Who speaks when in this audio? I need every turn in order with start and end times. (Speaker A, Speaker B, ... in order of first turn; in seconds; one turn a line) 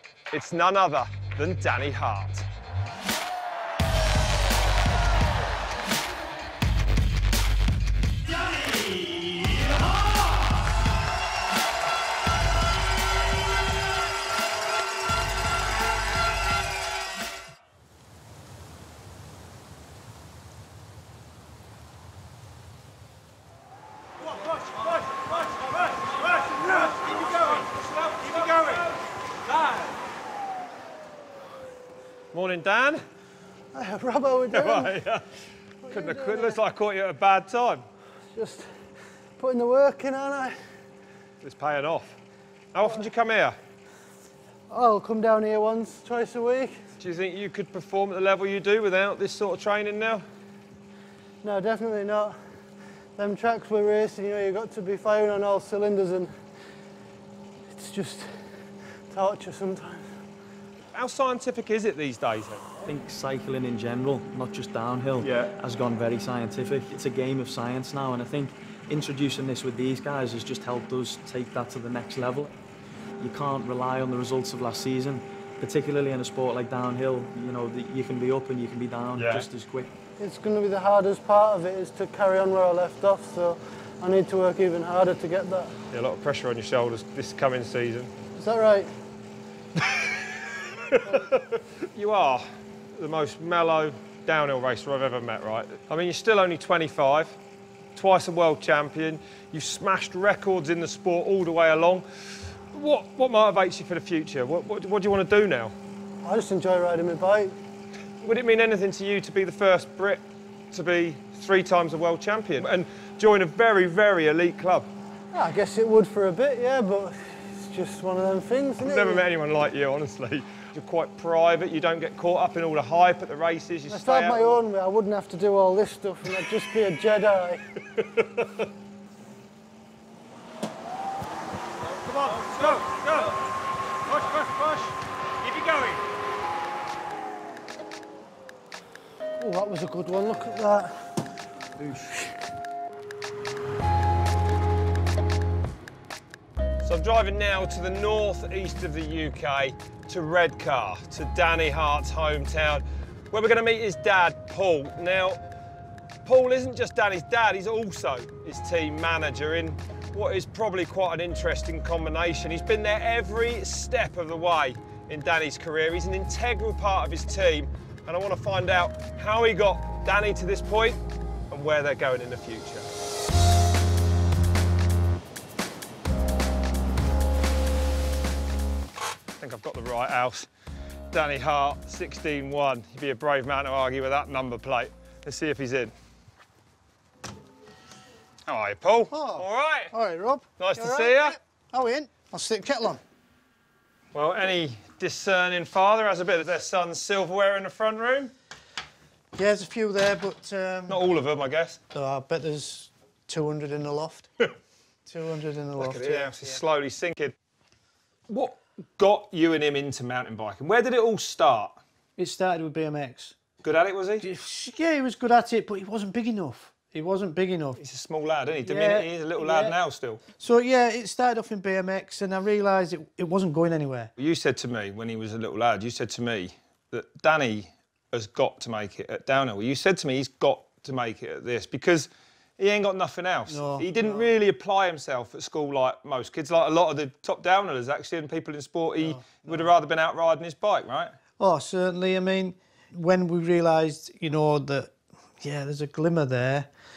Speaker A: 0.3-2.5
Speaker A: 25.1-28.9
Speaker A: 29.6-29.9
Speaker A: 32.3-33.0
Speaker B: 33.7-35.0
Speaker A: 34.5-35.3
Speaker B: 35.8-36.6
Speaker A: 35.9-37.9
Speaker B: 38.3-38.8
Speaker B: 39.4-40.6
Speaker A: 41.4-42.2
Speaker A: 42.7-43.6
Speaker B: 44.7-46.8
Speaker A: 47.0-50.2
Speaker B: 51.4-52.4
Speaker B: 53.2-56.3
Speaker B: 57.7-58.3
Speaker B: 59.1-60.0
Speaker A: 60.9-62.7
Speaker C: 62.8-72.5
Speaker A: 65.2-65.5
Speaker C: 73.2-79.9
Speaker A: 79.2-79.5
Speaker B: 80.2-85.7
Speaker A: 85.9-88.1
Speaker B: 88.4-88.9
Speaker A: 89.8-90.1
Speaker A: 90.8-97.4
Speaker B: 91.0-91.3
Speaker A: 98.0-102.0
Speaker A: 102.7-105.7
Speaker B: 106.2-107.5
Speaker A: 108.2-114.9
Speaker B: 115.3-119.3
Speaker A: 118.8-124.6
Speaker B: 123.9-127.6
Speaker A: 128.0-128.5
Speaker A: 131.9-133.4
Speaker A: 134.1-136.0
Speaker B: 139.4-141.2
Speaker B: 141.8-142.2
Speaker A: 146.8-155.4
Speaker A: 156.2-171.0
Speaker A: 171.5-172.9
Speaker A: 179.4-180.5
Speaker A: 181.1-185.9
Speaker A: 188.5-189.9
Speaker D: 189.1-193.0
Speaker A: 190.6-191.4
Speaker A: 194.1-198.3
Speaker D: 199.3-201.0
Speaker A: 200.9-201.8
Speaker D: 201.9-204.3
Speaker D: 205.1-206.4
Speaker A: 205.8-207.3
Speaker A: 208.3-211.8
Speaker D: 212.2-213.4
Speaker A: 213.6-214.3
Speaker D: 214.2-217.8
Speaker A: 217.8-220.2
Speaker D: 218.6-219.8
Speaker D: 220.4-224.1
Speaker A: 224.2-241.1
Speaker D: 233.5-234.3
Speaker D: 239.0-239.7
Speaker D: 241.4-246.7